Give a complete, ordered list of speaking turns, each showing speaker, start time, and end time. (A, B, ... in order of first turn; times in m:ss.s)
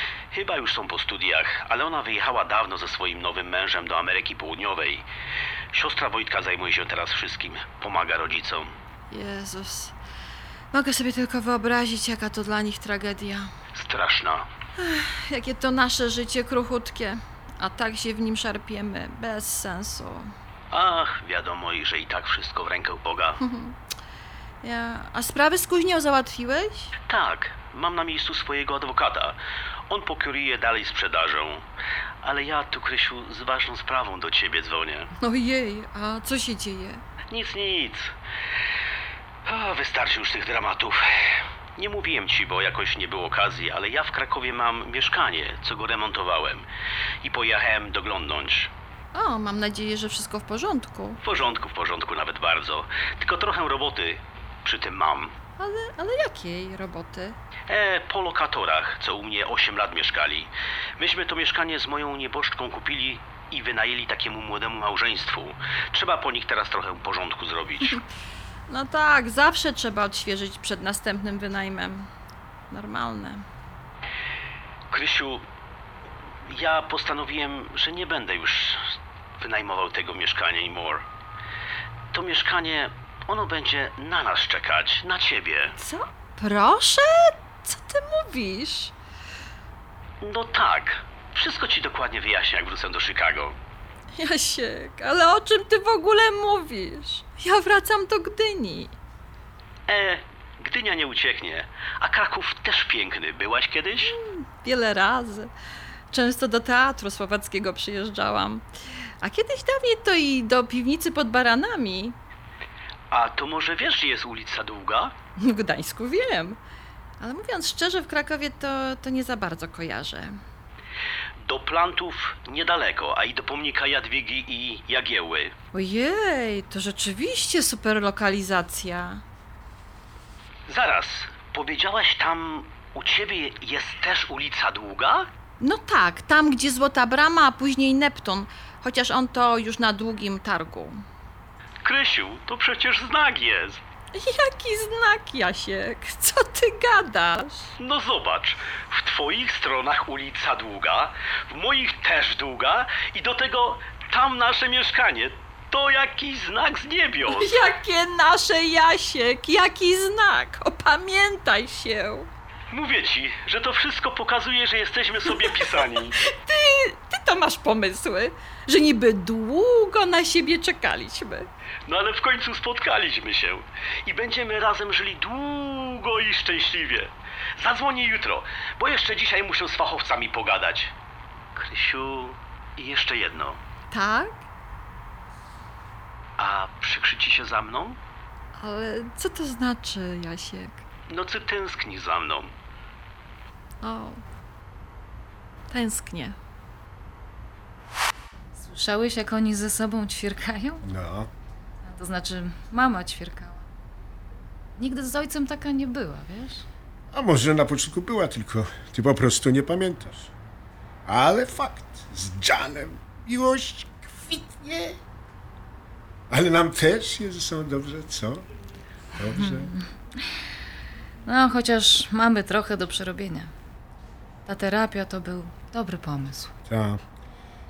0:00.3-0:05.1 A
0:05.7-0:08.7 A
0:09.1-0:09.9 B
0:10.7-0:13.5 B
0:13.8-0:14.5 A
0:14.8-0:20.3 B
0:20.7-0:23.4 A
0:23.4-0:23.8 B
0:24.6-0:26.9 B
0:27.1-0:29.4 A
0:29.9-0:31.6 A
0:32.2-0:35.1 A
0:35.2-0:37.0 B
0:37.3-0:38.1 A
0:39.5-0:41.0 A
0:41.8-0:46.7 A
0:47.2-0:48.7 A
0:49.1-0:51.2 B
0:51.2-0:55.3 A
0:55.6-0:57.4 B
0:57.7-1:08.0 A
1:08.7-1:12.1 B
1:12.7-1:13.4 B
1:14.9-1:15.4 A
1:16.5-1:18.8 A
1:19.4-1:21.0 A
1:22.1-1:25.8 A
1:25.8-1:28.9 B
1:30.2-1:33.6 A
1:34.2-1:38.9 B
1:39.9-1:44.1 A
1:44.0-1:45.5 B
1:46.1-1:48.7 B
1:49.2-1:52.2 B
1:53.1-1:55.2 A
1:55.4-1:56.6 B
1:57.2-2:00.4 B
2:01.4-2:05.5 A
2:05.7-2:09.2 B
2:10.7-2:15.3 A
2:15.6-2:21.0 B
2:21.8-2:23.8 A
2:24.2-2:27.7 B
2:27.8-2:37.6 A
2:37.2-2:42.3 B
2:42.7-2:46.2 A
2:45.3-2:51.5 B
2:51.9-3:00.9 A
3:01.6-3:03.6 A
3:03.9-3:04.4 B
3:06.4-3:08.0 A
3:08.6-3:10.8 B
3:11.1-3:12.5 A
3:13.8-3:14.2 B
3:15.7-3:16.4 B
3:18.6-3:20.8 C
3:20.8-3:21.3 D
3:21.8-3:23.6 C
3:24.8-3:26.6 C
3:27.1-3:30.3 D
3:31.1-3:35.0 D
3:36.3-3:38.4 D
3:39.2-3:39.7 D
3:39.4-3:39.8 C
3:41.3-3:43.5 C
3:44.5-3:46.5 C
3:46.7-3:47.0 D